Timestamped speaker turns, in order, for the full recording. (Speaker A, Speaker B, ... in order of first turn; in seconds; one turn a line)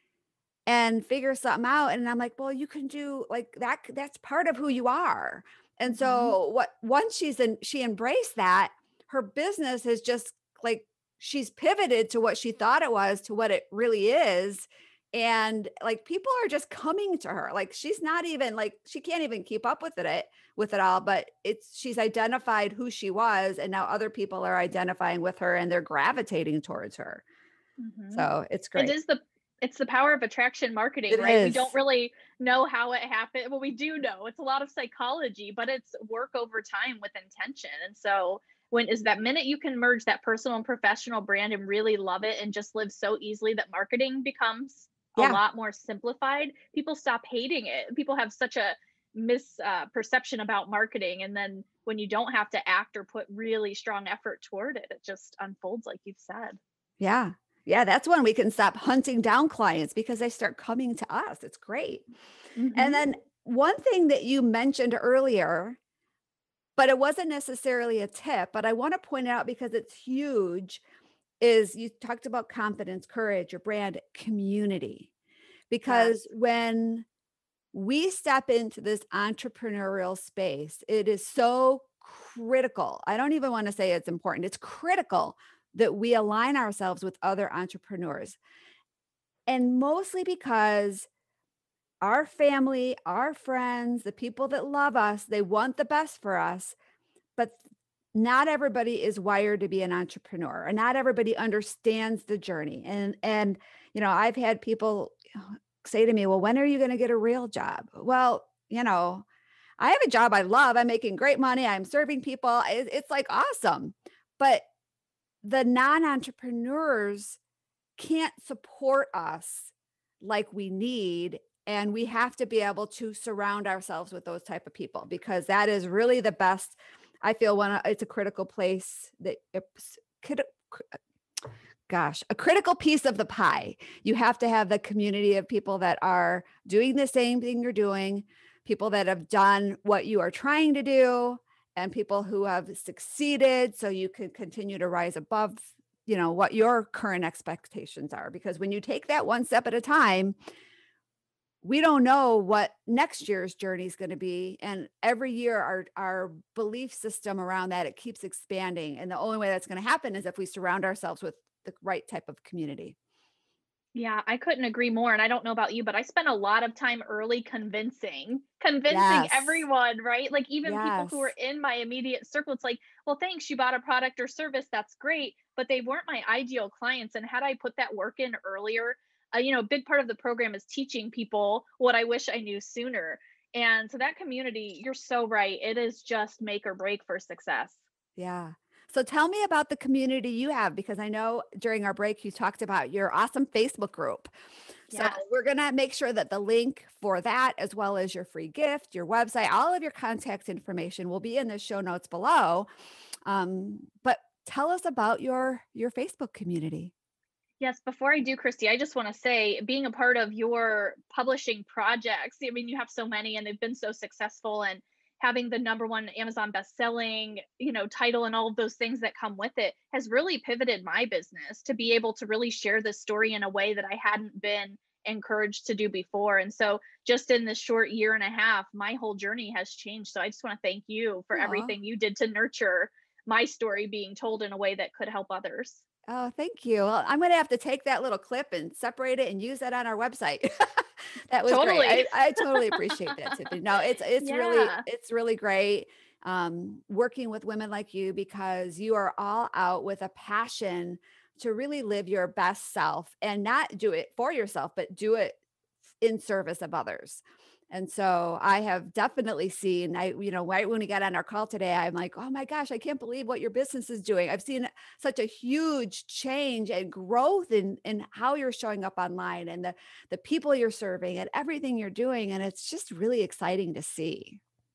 Speaker A: 0.7-27.2
Speaker B: 5.9-6.3
Speaker B: 27.8-56.6
Speaker A: 28.1-29.0
Speaker A: 31.1-31.8
Speaker A: 57.0-62.1
Speaker B: 62.6-63.0
Speaker A: 62.8-65.8
Speaker A: 66.8-70.8
Speaker A: 71.4-75.1
Speaker A: 75.7-77.1
Speaker B: 75.9-76.2
Speaker A: 77.7-88.4
Speaker A: 89.5-91.1
Speaker A: 92.0-96.8
Speaker A: 97.4-97.6
Speaker A: 98.1-109.3
Speaker A: 109.8-114.7
Speaker A: 115.4-117.4
Speaker A: 118.0-131.0
Speaker A: 131.9-150.3
Speaker A: 151.6-163.0
Speaker B: 163.9-187.8
Speaker A: 168.9-169.7
Speaker A: 170.6-171.3
Speaker A: 188.2-194.3
Speaker B: 194.9-195.2
Speaker A: 194.9-202.7
Speaker A: 203.3-206.9
Speaker B: 207.6-235.8
Speaker A: 231.3-231.8
Speaker A: 236.1-255.4
Speaker B: 241.5-243.4
Speaker B: 244.2-244.8
Speaker A: 256.0-274.4